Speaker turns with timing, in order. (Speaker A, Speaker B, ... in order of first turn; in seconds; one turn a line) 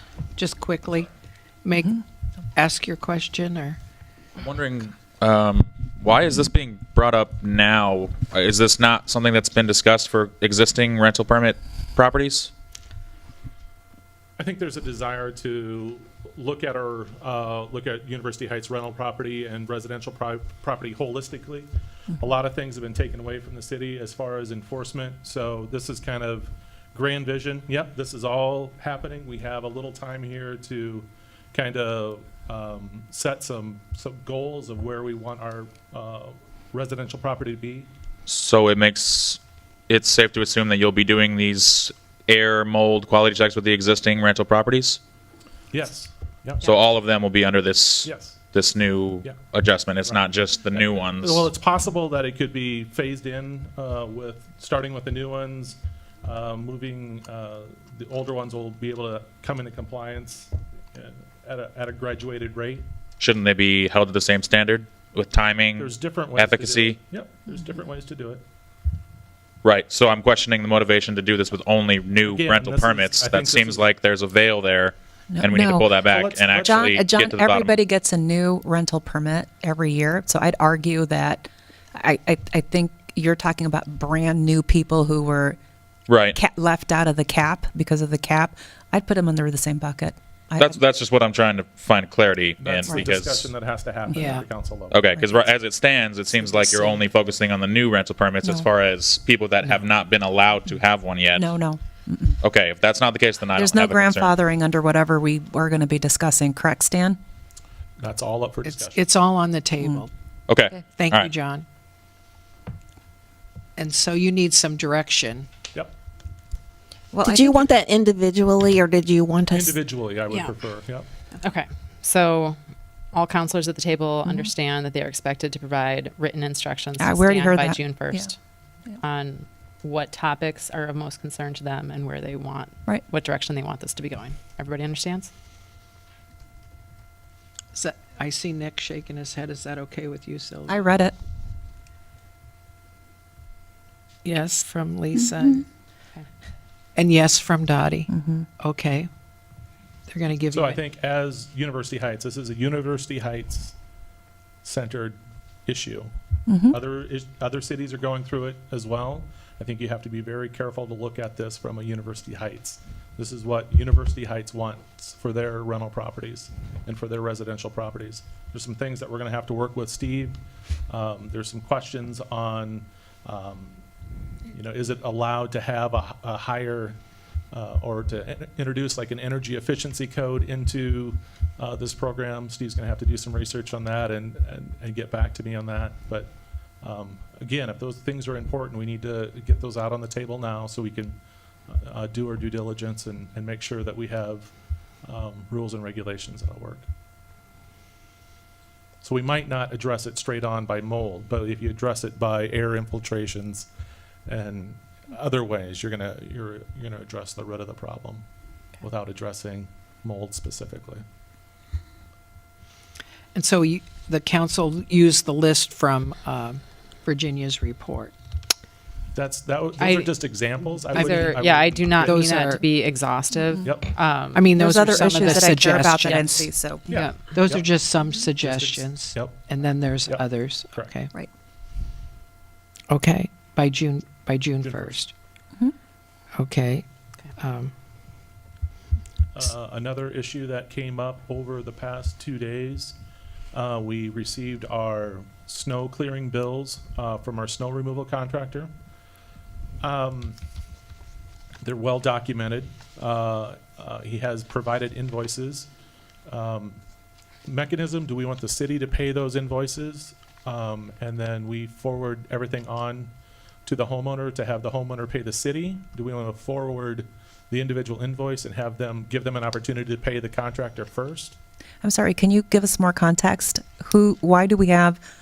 Speaker A: 0.3-1.1
Speaker A: 1.6-2.0
Speaker A: 2.5-3.8
Speaker B: 4.4-12.5
Speaker C: 14.4-37.9
Speaker B: 38.3-45.0
Speaker C: 45.7-46.6
Speaker B: 46.6-51.5
Speaker C: 48.0-48.4
Speaker C: 50.0-62.9
Speaker B: 63.2-67.0
Speaker C: 65.8-68.4
Speaker B: 69.6-77.7
Speaker C: 72.2-73.8
Speaker D: 75.3-75.9
Speaker C: 76.0-76.9
Speaker D: 76.6-85.6
Speaker B: 86.1-86.4
Speaker D: 86.3-90.8
Speaker B: 90.6-93.5
Speaker C: 92.6-95.0
Speaker A: 94.1-94.5
Speaker B: 94.9-101.5
Speaker D: 96.5-96.9
Speaker D: 101.3-102.4
Speaker B: 102.4-104.3
Speaker D: 103.5-107.2
Speaker C: 108.0-109.1
Speaker A: 108.6-110.1
Speaker B: 110.5-111.3
Speaker A: 110.8-111.6
Speaker A: 113.8-115.5
Speaker E: 117.1-119.8
Speaker D: 117.2-117.7
Speaker C: 119.5-121.1
Speaker F: 121.4-122.6
Speaker F: 123.1-128.3
Speaker D: 127.0-128.3
Speaker F: 128.9-135.3
Speaker A: 137.7-140.9
Speaker D: 140.7-141.1
Speaker A: 144.2-145.7
Speaker A: 146.9-149.1
Speaker D: 148.1-148.5
Speaker A: 150.1-150.8
Speaker C: 150.5-153.8
Speaker C: 154.6-156.1
Speaker D: 156.5-156.8
Speaker C: 156.7-173.8
Speaker C: 174.5-177.0
Speaker C: 177.5-191.2
Speaker C: 191.7-194.5
Speaker C: 195.0-196.9
Speaker C: 199.0-203.7
Speaker C: 204.3-208.2
Speaker C: 208.8-211.0
Speaker A: 213.3-218.1
Speaker C: 219.1-222.5
Speaker F: 219.8-220.1
Speaker F: 220.9-226.3
Speaker A: 220.9-221.4
Speaker A: 222.0-222.6
Speaker C: 223.6-223.9
Speaker A: 224.3-226.5
Speaker D: 224.6-226.9
Speaker C: 226.9-227.7
Speaker F: 226.9-227.2
Speaker A: 227.2-231.1
Speaker C: 228.3-229.5
Speaker C: 230.1-230.9
Speaker A: 232.9-235.1
Speaker C: 234.6-235.0
Speaker A: 236.4-236.8
Speaker A: 237.4-237.7
Speaker C: 239.3-243.0
Speaker C: 243.5-248.7
Speaker C: 249.8-250.4
Speaker C: 251.6-255.7
Speaker C: 256.3-256.8
Speaker C: 257.4-263.1
Speaker C: 263.6-271.4
Speaker D: 271.8-275.0